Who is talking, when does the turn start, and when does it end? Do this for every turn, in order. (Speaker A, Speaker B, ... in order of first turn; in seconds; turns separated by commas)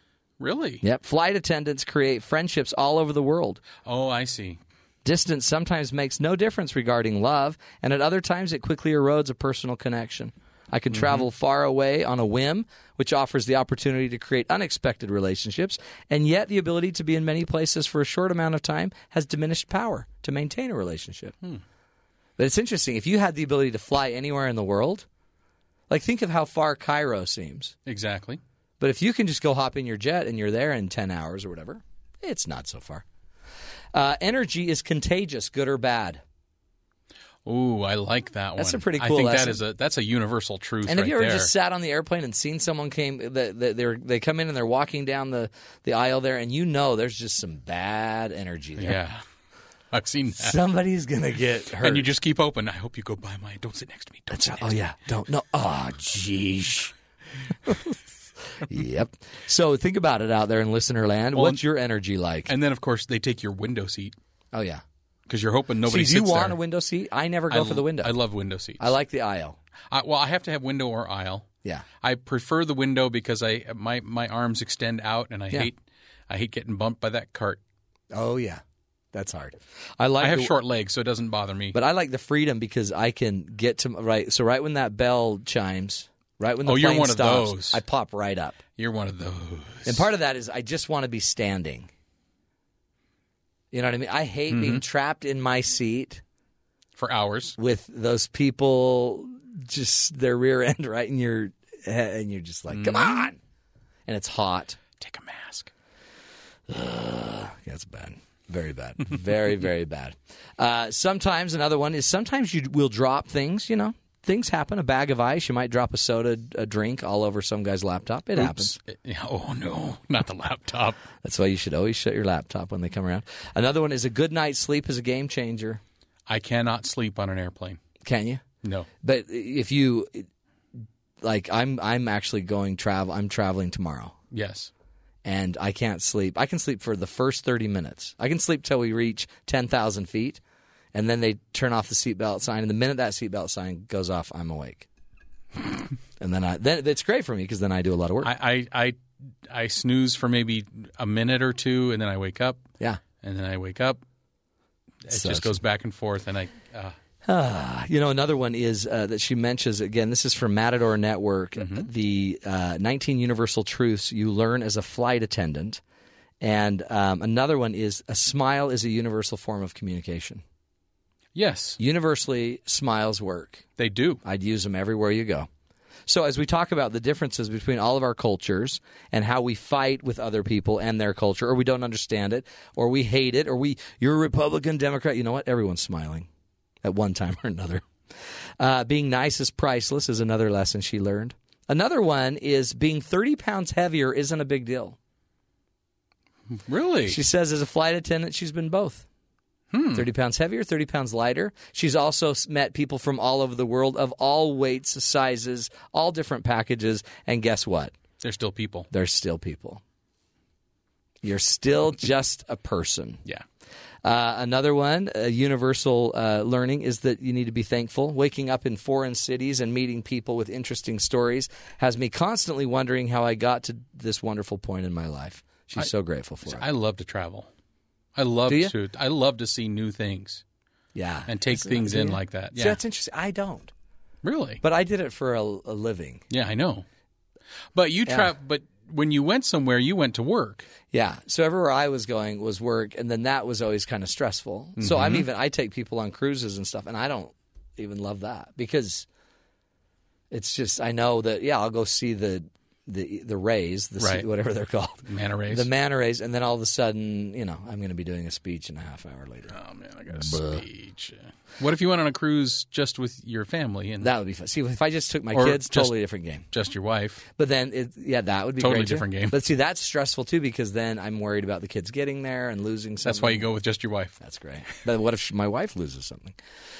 Speaker A: 0.4-0.8, Speaker B: 0.8-3.6, Speaker A: 3.8-4.6, Speaker B: 5.0-21.3, Speaker A: 10.9-11.2, Speaker B: 22.4-25.1, Speaker B: 25.9-27.7, Speaker A: 27.9-28.4, Speaker B: 28.8-33.0, Speaker B: 33.9-36.2, Speaker A: 37.4-41.5, Speaker B: 38.6-39.6, Speaker B: 40.9-49.0, Speaker A: 48.8-49.2, Speaker A: 49.9-50.6, Speaker B: 50.3-52.1, Speaker A: 51.8-54.8, Speaker B: 54.3-56.9, Speaker B: 57.6-58.0, Speaker B: 58.5-62.5, Speaker A: 61.3-61.6, Speaker A: 62.5-64.1, Speaker B: 64.5-64.8, Speaker A: 65.3-66.6, Speaker B: 65.8-68.1, Speaker A: 67.5-68.9, Speaker B: 68.8-69.6, Speaker A: 69.9-71.5, Speaker A: 72.0-75.8, Speaker A: 76.3-77.6, Speaker B: 78.1-78.6, Speaker B: 79.1-80.5, Speaker A: 80.2-81.8, Speaker B: 81.7-88.6, Speaker A: 86.6-87.8, Speaker A: 88.8-90.0, Speaker B: 89.8-91.9, Speaker B: 93.7-96.2, Speaker A: 94.5-94.8, Speaker A: 97.0-97.6, Speaker B: 97.6-103.4, Speaker A: 102.7-103.3, Speaker B: 104.1-104.8, Speaker A: 105.0-105.7, Speaker B: 106.7-118.8, Speaker A: 118.3-121.0, Speaker B: 121.2-125.8, Speaker A: 126.3-127.8, Speaker B: 128.0-128.4, Speaker A: 128.6-128.9, Speaker B: 129.0-130.3, Speaker B: 131.2-134.1, Speaker A: 134.3-134.7, Speaker B: 135.2-140.4, Speaker B: 140.9-144.8, Speaker B: 146.2-148.3, Speaker A: 148.2-152.6, Speaker A: 153.2-154.0, Speaker A: 155.0-156.9, Speaker B: 155.1-155.6, Speaker B: 157.2-165.8, Speaker A: 161.6-161.9, Speaker B: 166.4-170.4, Speaker A: 171.3-171.8, Speaker B: 171.8-173.6, Speaker A: 173.8-174.2, Speaker B: 174.2-175.5, Speaker B: 176.1-186.3, Speaker B: 186.8-187.9, Speaker B: 188.6-195.0, Speaker A: 196.6-197.2, Speaker B: 197.1-199.1, Speaker A: 199.7-200.1, Speaker B: 199.9-207.9, Speaker A: 208.2-208.9, Speaker B: 208.9-209.8, Speaker B: 211.2-213.2, Speaker B: 214.0-226.7, Speaker A: 226.4-227.5, Speaker A: 228.2-230.4, Speaker B: 228.5-228.7, Speaker B: 230.9-233.7, Speaker A: 231.3-232.8, Speaker A: 234.2-234.6, Speaker B: 234.6-236.2, Speaker A: 236.3-236.8, Speaker A: 237.7-240.7, Speaker B: 238.1-238.3, Speaker B: 240.9-249.1, Speaker A: 244.8-245.2, Speaker B: 250.3-259.6, Speaker A: 254.0-254.3, Speaker A: 255.1-255.7, Speaker A: 259.5-264.1, Speaker B: 260.1-260.6, Speaker B: 264.0-266.4, Speaker A: 265.3-265.9, Speaker A: 266.5-267.2, Speaker B: 267.4-273.5, Speaker A: 268.6-269.4, Speaker A: 273.0-274.2, Speaker B: 274.2-276.4